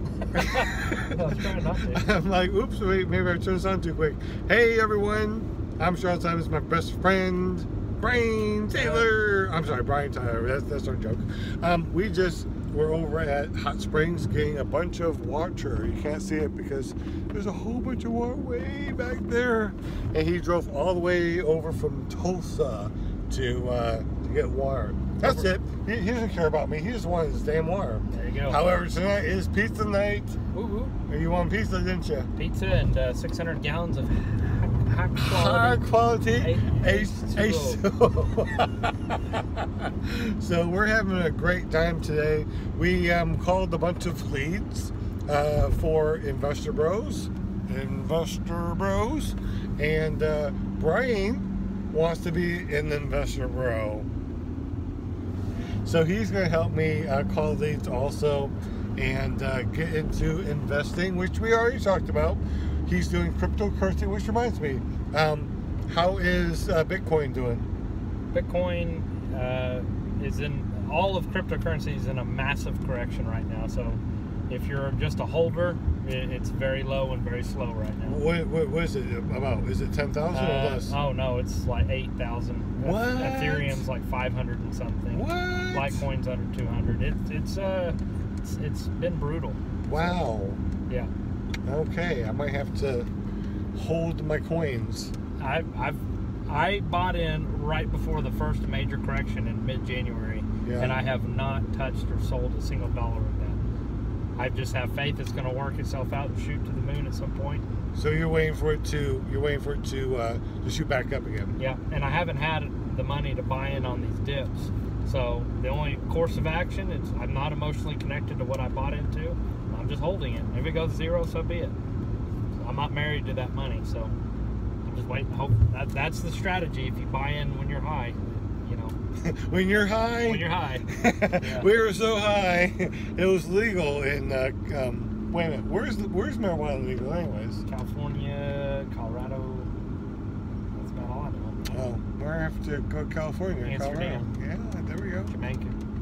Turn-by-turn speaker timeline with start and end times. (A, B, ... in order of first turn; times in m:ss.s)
0:00.3-0:30.4 A
0:00.3-0:02.1 B
0:08.7-0:09.1 B
0:25.2-0:25.5 B
0:28.1-0:28.6 B
0:30.5-0:31.0 B
0:31.1-0:32.3 A
0:32.3-0:37.8 B
0:35.2-0:54.1 A
0:55.8-1:07.6 A
1:08.3-1:18.2 B
1:18.0-1:21.0 A
1:20.3-1:30.2 B
1:22.8-1:23.8 A
1:25.1-1:26.0 A
1:29.8-1:30.6 A
1:31.6-1:33.1 A
1:33.7-1:35.1 A
1:35.4-1:43.6 B
1:40.6-1:41.0 A
1:44.4-1:47.6 B
1:48.0-1:51.6 A
1:51.6-2:01.7 B
2:02.6-2:04.1 B
2:04.8-2:09.0 B
2:09.2-2:17.6 A
2:10.2-2:11.8 B
2:17.6-2:19.7 B
2:20.8-2:21.9 B
2:21.7-2:25.3 A
2:23.6-2:24.3 B
2:25.3-2:25.8 B